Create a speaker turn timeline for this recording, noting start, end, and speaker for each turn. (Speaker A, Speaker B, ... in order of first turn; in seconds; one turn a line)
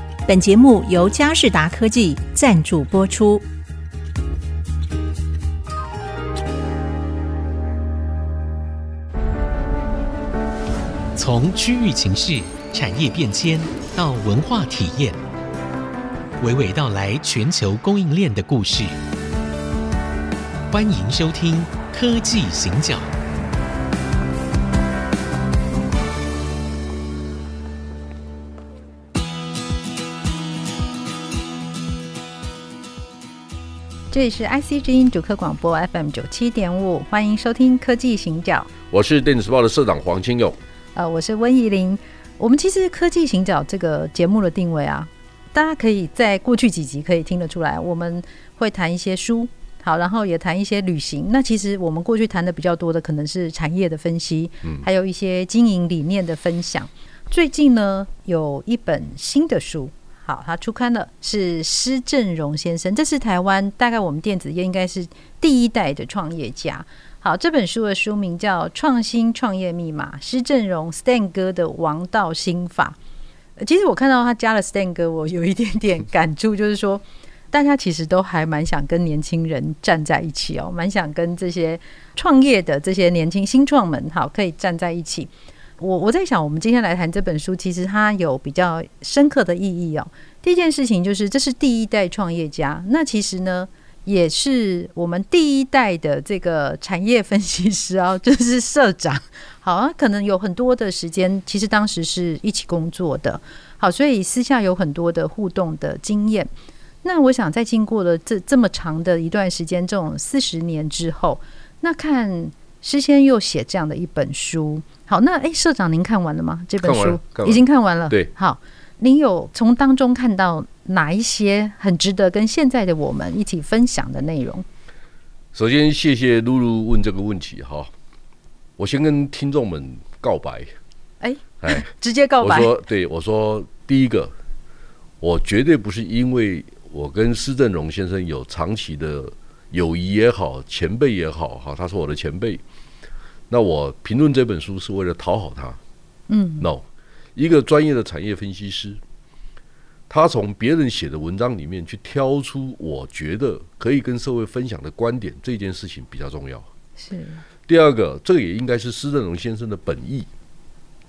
Speaker A: 0.2-3.5
Speaker B: 11.1-15.2
Speaker B: 16.4-19.0
Speaker B: 20.7-23.1
Speaker C: 34.1-38.7
Speaker D: 38.9-40.6
Speaker C: 40.9-73.0
Speaker C: 73.6-106.5
Speaker C: 107.0-124.7
Speaker D: 116.8-118.3
Speaker D: 125.5-127.9
Speaker D: 128.8-130.7
Speaker C: 131.2-132.7
Speaker D: 131.6-131.9
Speaker D: 132.4-134.3
Speaker D: 135.2-142.6
Speaker D: 143.5-145.8
Speaker C: 146.3-146.7
Speaker D: 147.3-149.0
Speaker D: 150.1-156.7
Speaker C: 157.0-157.4
Speaker D: 157.7-160.3